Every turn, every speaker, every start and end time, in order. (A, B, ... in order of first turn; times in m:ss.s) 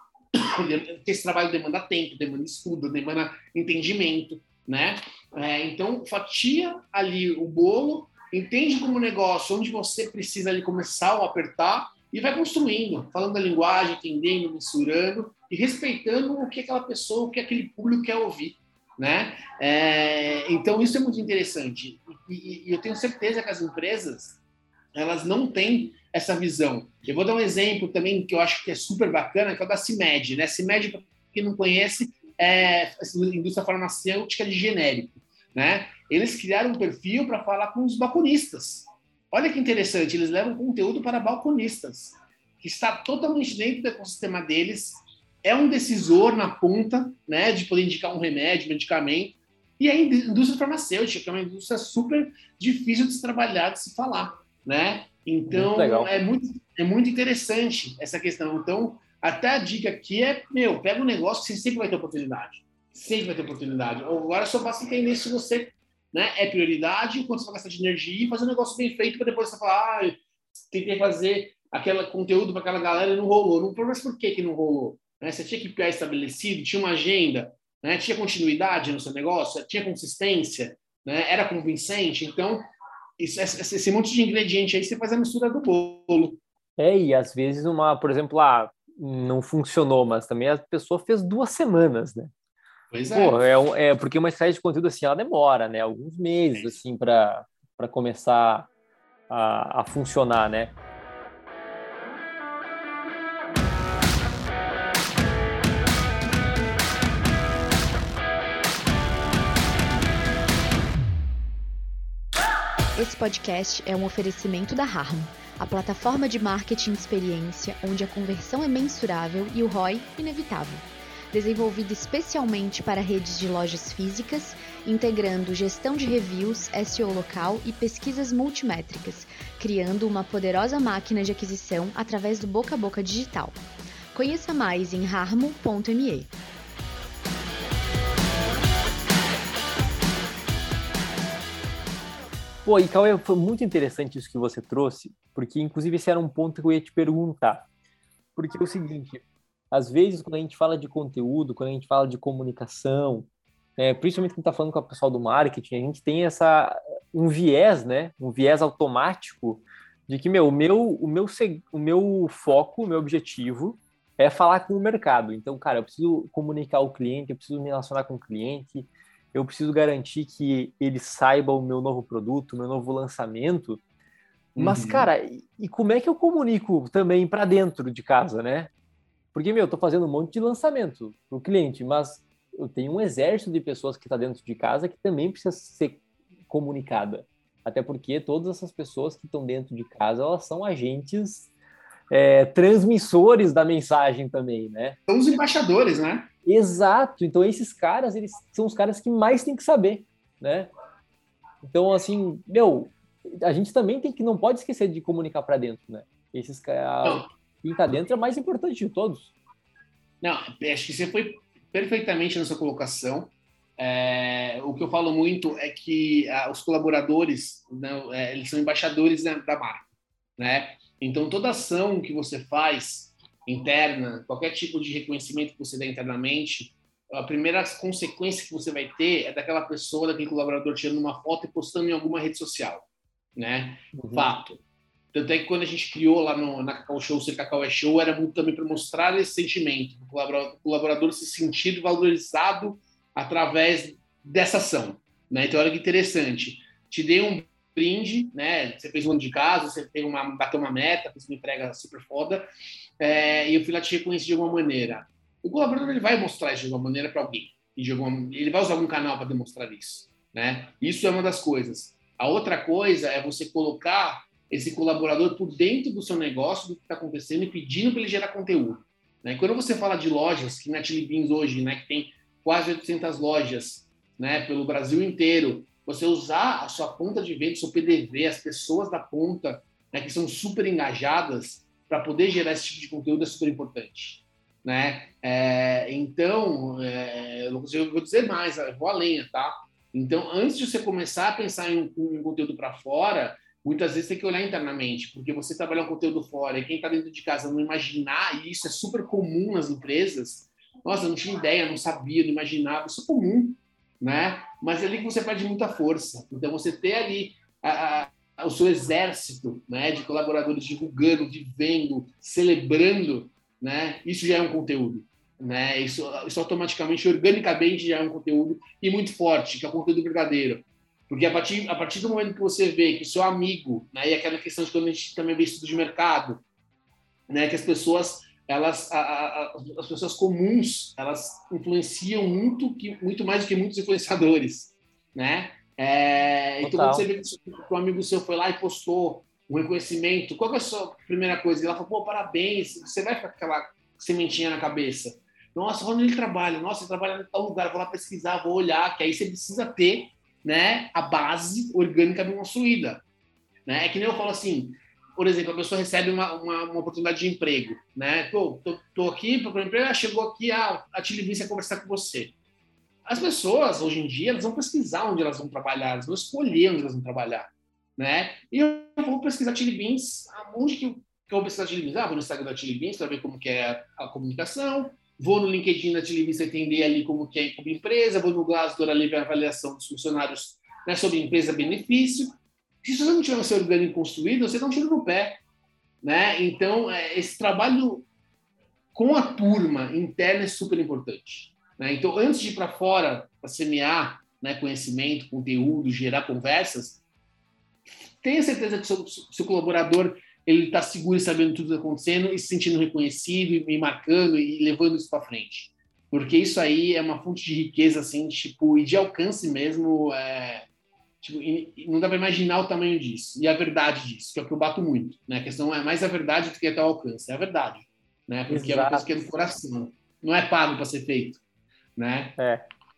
0:00.4-0:24.4 A
0:24.9-1:22.6 A
0:55.5-0:56.2 B
1:23.2-1:26.4 A
1:26.8-1:32.3 B
1:32.9-1:33.4 A
1:33.1-1:38.7 B
1:39.3-1:40.8 B
1:53.0-2:13.6 C
2:14.1-2:16.3 C
2:22.6-2:27.7 B
2:28.4-2:53.8 B
2:54.6-2:55.1 A
2:54.6-2:58.7 B
2:59.3-3:11.5 B
3:12.1-3:15.0 B
3:15.1-3:16.3 A
3:16.4-3:20.7 B
3:21.6-3:29.3 B
3:30.2-3:54.6 A
3:53.9-3:54.4 B
3:55.1-4:12.4 A
4:13.0-5:26.4 A
5:27.3-5:53.0 A
5:36.6-5:37.1 B
5:53.7-6:02.3 A
6:03.1-6:25.4 A
6:26.0-6:28.1 A
6:28.9-6:37.0 A
6:37.9-6:50.7 A
6:51.2-7:01.4 A
6:58.5-6:59.3 B
7:02.0-7:02.4 A
7:02.4-7:02.7 B